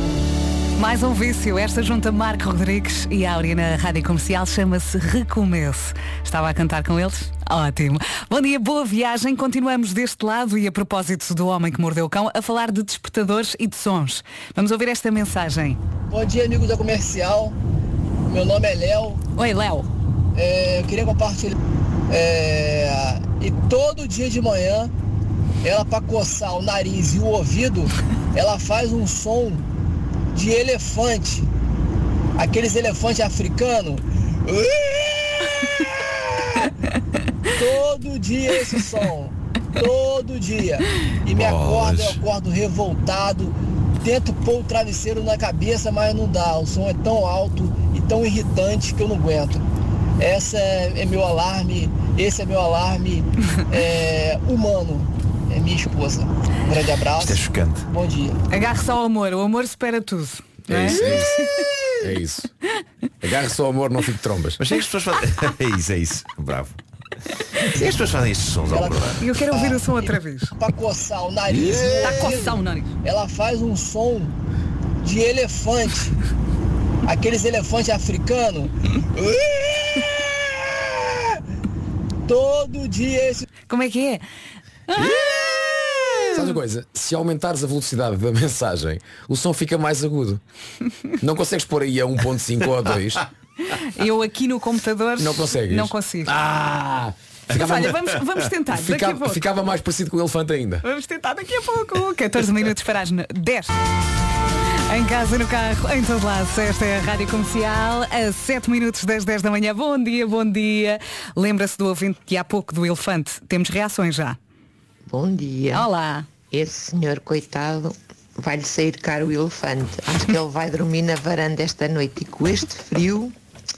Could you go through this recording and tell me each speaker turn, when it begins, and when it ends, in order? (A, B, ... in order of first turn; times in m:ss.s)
0:00.8-0:15.8 A
0:16.1-0:17.6 B
0:18.3-0:19.2 B
0:19.4-0:19.9 A
0:20.3-0:21.6 B
0:22.1-0:24.9 B
0:25.6-0:29.6 B
0:30.3-0:31.5 B
0:32.4-0:36.6 B
0:37.5-0:49.6 B
0:41.3-0:42.2 C
0:50.2-0:58.4 B
0:57.2-0:57.9 C
0:58.5-1:01.0 A
1:00.7-1:01.3 D
1:00.8-1:01.3 C
1:02.0-1:02.5 D
1:03.2-1:04.6 D
1:04.6-1:06.8 C
1:07.6-1:09.2 C
1:08.7-1:14.3 B
1:09.2-1:10.5 A
1:12.0-1:12.9 A
1:15.0-1:16.1 B
1:17.0-1:20.8 B
1:22.3-1:23.4 B
1:23.7-1:24.2 A
1:24.9-1:26.4 A
1:25.0-1:25.4 D
1:26.3-1:30.4 D
1:31.2-1:33.2 D
1:33.7-1:36.3 A
1:35.2-1:38.1 D
1:37.5-1:39.4 A
1:38.7-1:40.9 D
1:40.8-1:43.7 A
1:44.9-1:54.4 A
1:55.1-1:55.9 E
1:55.7-1:56.3 A
1:56.5-2:03.3 E